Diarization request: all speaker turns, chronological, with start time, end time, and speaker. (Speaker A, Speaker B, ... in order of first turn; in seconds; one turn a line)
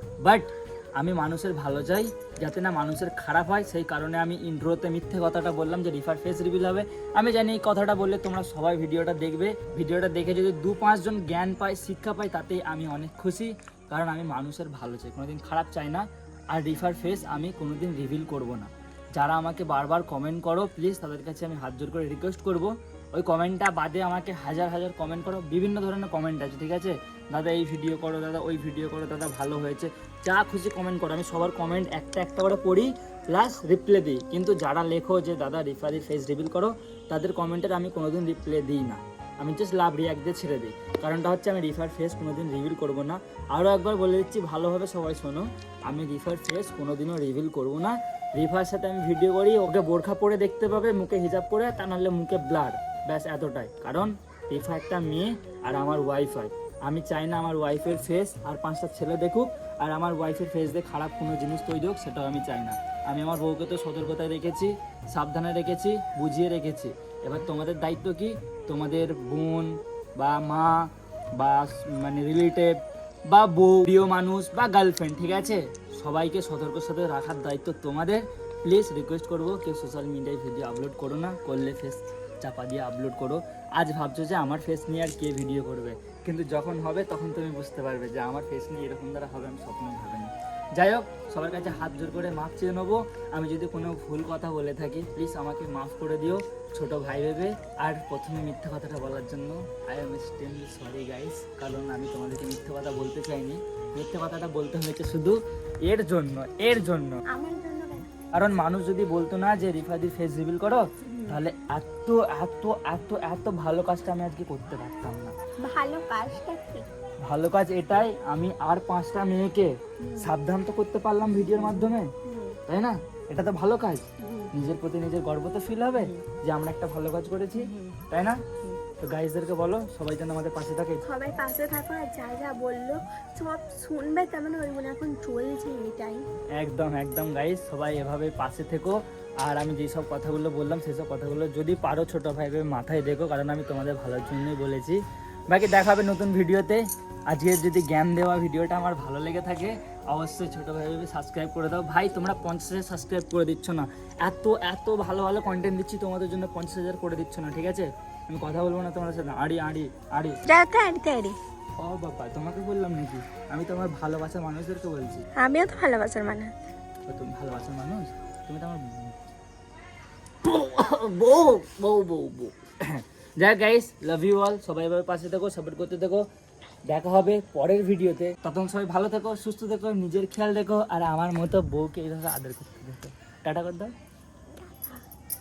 Speaker A: 0.2-107.2
Speaker B: 107.3-108.1
Speaker A: 108.3-115.3
Speaker B: 111.0-111.4
Speaker B: 115.6-116.9
Speaker A: 117.2-122.1
Speaker B: 120.0-120.3
Speaker B: 121.6-122.6
Speaker A: 122.7-128.5
Speaker B: 124.2-124.5
Speaker B: 125.9-126.2
Speaker B: 127.5-128.8
Speaker A: 129.0-131.1
Speaker B: 131.1-136.3
Speaker A: 136.6-160.4
Speaker B: 160.4-161.4
Speaker A: 161.8-165.2
Speaker B: 165.4-166.5
Speaker A: 167.1-169.1
Speaker A: 170.4-176.3
Speaker A: 176.9-183.9
Speaker B: 184.6-185.0